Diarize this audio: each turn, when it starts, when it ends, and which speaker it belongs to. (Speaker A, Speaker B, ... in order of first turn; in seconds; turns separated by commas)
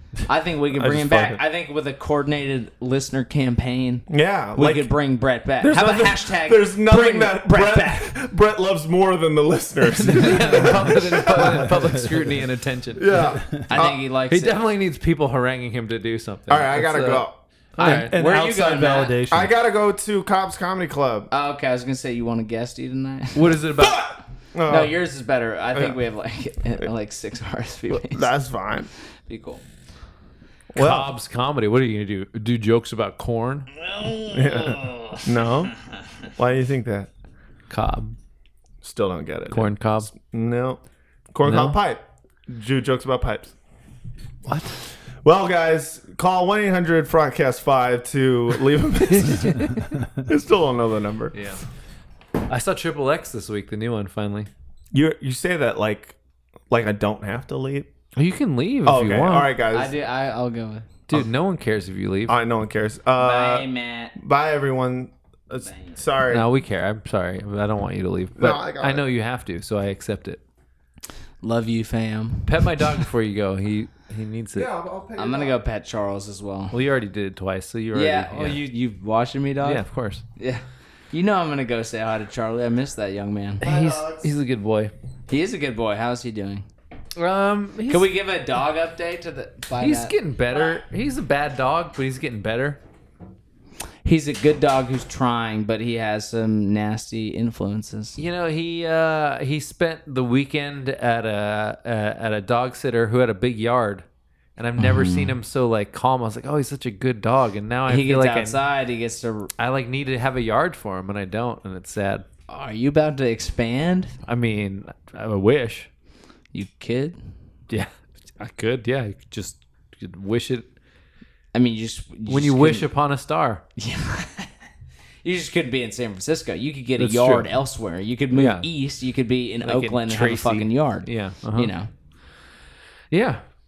Speaker A: 0.3-8.1, Speaker B: 0.8-1.4, Speaker B: 4.1-4.9, Speaker B: 5.6-11.8, Speaker C: 9.9-17.2, Speaker D: 11.7-12.1, Speaker B: 13.0-14.0, Speaker A: 13.7-14.6, Speaker B: 16.5-17.3, Speaker C: 17.8-18.1, Speaker D: 17.8-19.5, Speaker A: 17.8-19.2, Speaker B: 19.3-21.3, Speaker A: 21.3-23.6, Speaker C: 23.3-24.1, Speaker B: 23.8-24.9, Speaker A: 24.7-28.3, Speaker B: 27.9-28.9, Speaker A: 29.3-29.6, Speaker C: 30.7-33.7, Speaker B: 30.8-31.1, Speaker A: 33.9-35.2, Speaker B: 34.3-37.1, Speaker C: 37.7-38.1, Speaker B: 38.8-40.8, Speaker C: 39.5-40.1, Speaker B: 41.3-43.5, Speaker C: 41.4-41.8, Speaker C: 44.5-44.7, Speaker B: 45.2-51.4, Speaker C: 49.1-49.9, Speaker C: 51.3-51.6, Speaker C: 52.5-54.5, Speaker B: 54.9-56.1, Speaker B: 56.7-57.9, Speaker C: 58.1-59.5, Speaker B: 58.8-59.9, Speaker A: 59.7-60.9, Speaker C: 61.1-62.4, Speaker B: 62.3-66.5, Speaker A: 63.2-64.2, Speaker A: 65.7-66.0, Speaker C: 66.3-70.4, Speaker B: 68.4-69.0, Speaker A: 71.4-73.0, Speaker C: 72.4-74.7, Speaker B: 74.5-75.5, Speaker A: 75.2-76.8, Speaker C: 76.7-78.6, Speaker A: 77.9-83.7, Speaker C: 79.6-80.2, Speaker C: 83.6-84.9, Speaker B: 83.6-84.3, Speaker A: 85.3-86.6, Speaker C: 87.2-88.1, Speaker A: 87.9-90.8, Speaker C: 89.8-92.8, Speaker A: 94.0-98.2, Speaker C: 98.2-104.0, Speaker C: 104.6-108.6, Speaker A: 104.8-105.3, Speaker A: 107.9-109.5, Speaker C: 109.6-112.2, Speaker A: 112.5-114.1, Speaker C: 114.3-115.9, Speaker A: 116.5-117.2, Speaker C: 117.7-120.7, Speaker A: 121.5-122.9, Speaker C: 122.3-123.6, Speaker A: 123.8-124.5, Speaker A: 125.2-131.9, Speaker D: 127.0-127.5, Speaker C: 128.3-128.7, Speaker C: 129.6-131.7, Speaker C: 133.1-133.4